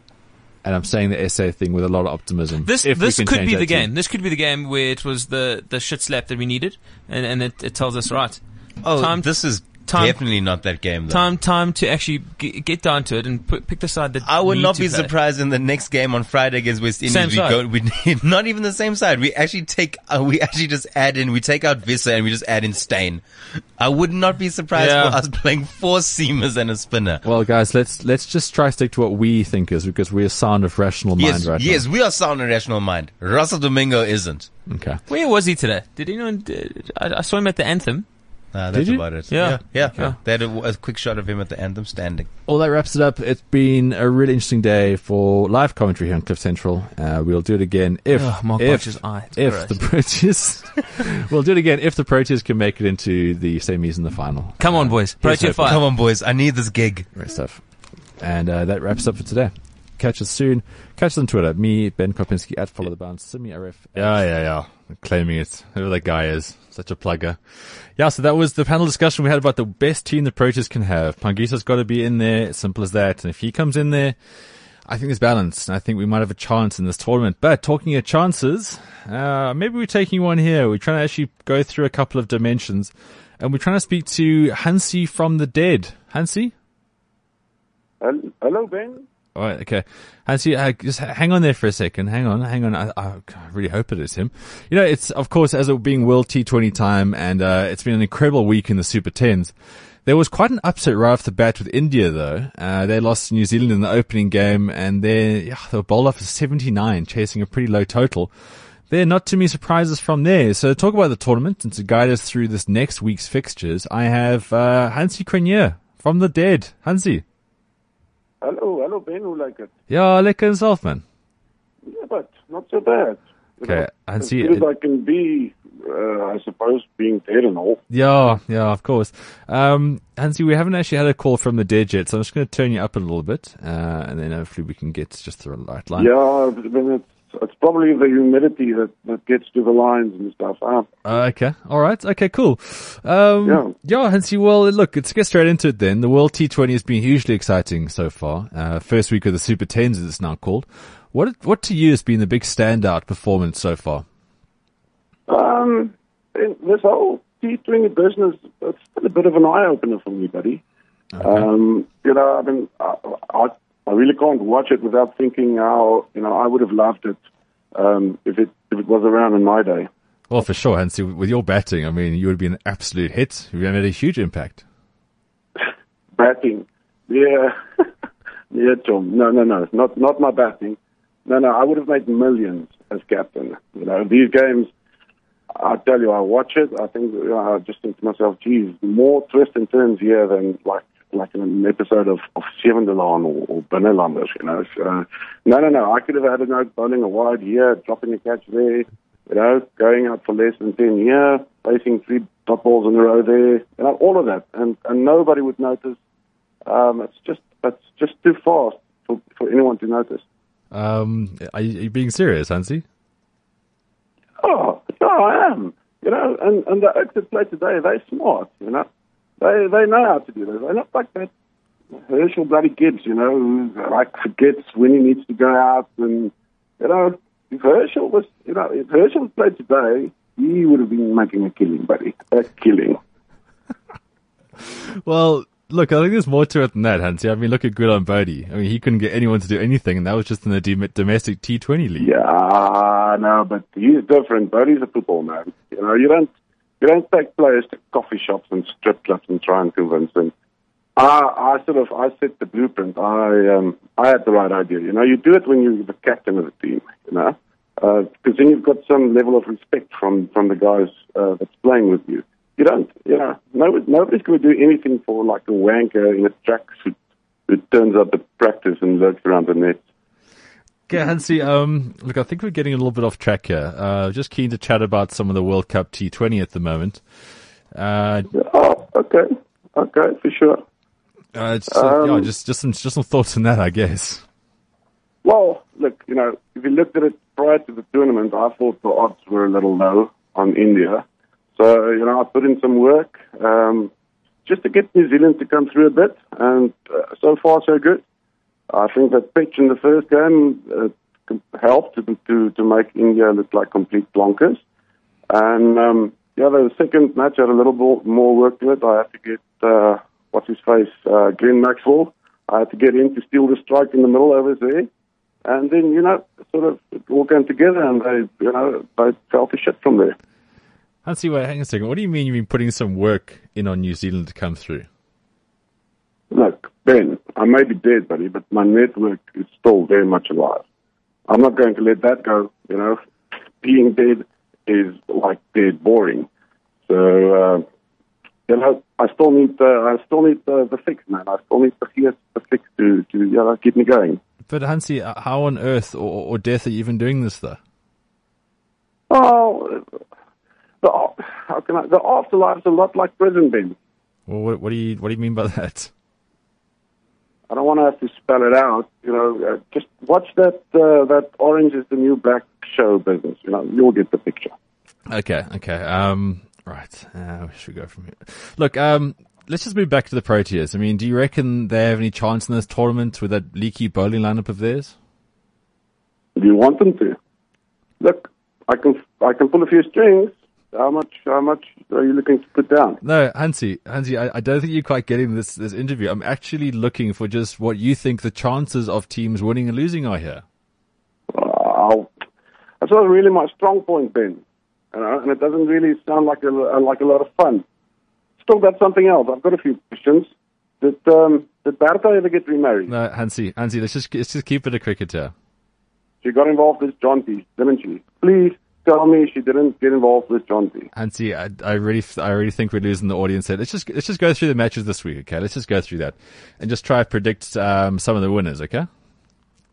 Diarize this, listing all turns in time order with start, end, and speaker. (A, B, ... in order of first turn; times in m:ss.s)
0:00.6-0:03.9 A
0:02.6-0:15.1 B
0:08.8-0:11.3 C
0:14.2-0:27.3 C
0:17.0-0:17.6 B
0:24.7-0:25.2 B
0:27.2-0:31.9 A
0:31.2-0:34.6 C
0:34.7-0:35.0 A
0:35.1-0:38.4 B
0:38.5-0:42.3 C
0:38.7-0:40.1 A
0:39.3-0:40.2 B
0:42.4-0:55.8 A
0:48.1-0:49.8 B
0:54.6-0:55.9 B
0:55.2-0:57.1 C
0:57.1-1:14.2 A
1:14.9-1:26.5 A
1:28.0-1:29.0 D
1:29.4-1:39.5 A
1:40.0-1:48.3 A
1:48.9-1:57.2 A
1:58.4-1:59.7 D
1:59.9-2:01.0 A
2:01.9-2:07.8 D
2:03.6-2:04.6 A
2:07.9-2:16.1 A
2:16.0-2:20.9 D
2:21.0-2:34.1 A
2:23.4-2:23.7 D
2:35.3-2:40.6 D
2:41.1-2:41.5 A
2:41.2-2:47.2 D
2:47.7-2:49.9 D
2:50.3-2:54.6 A
2:56.2-2:57.6 D
2:58.5-3:04.7 D
3:05.6-3:26.0 D
3:26.6-3:30.2 D
3:30.7-3:32.8 A
3:34.4-3:38.9 D
3:39.4-3:41.3 D
3:42.0-3:53.0 D
3:55.0-4:02.1 A
4:02.0-4:10.3 D
4:11.0-4:27.0 D
4:27.5-4:29.8 D
4:30.9-4:37.0 A
4:37.7-4:38.3 A
4:38.3-4:40.6 D
4:41.4-4:44.2 A
4:41.7-4:42.3 D
4:45.2-4:51.0 D
4:51.6-4:53.9 D
4:54.4-4:58.0 D
4:58.7-5:04.6 D
5:05.3-5:14.9 D
5:15.4-5:20.2 D
5:21.0-5:24.9 A
5:26.3-5:30.6 D
5:31.3-5:33.0 D
5:33.6-5:36.3 D
5:36.9-5:37.6 D
5:38.5-5:44.2 D
5:44.5-5:47.6 A
5:49.1-5:49.8 D
5:50.8-5:53.8 D
5:54.3-5:55.9 A
5:57.5-6:04.5 D
6:05.1-6:14.9 A
6:16.4-6:17.2 D
6:18.0-6:23.0 D
6:23.0-6:30.4 A
6:31.3-6:32.1 D
6:32.8-6:34.4 D
6:34.9-6:37.6 D
6:38.4-6:40.3 D
6:40.8-6:42.9 D
6:42.9-6:45.3 A
6:46.2-6:50.9 D
6:50.9-6:58.9 A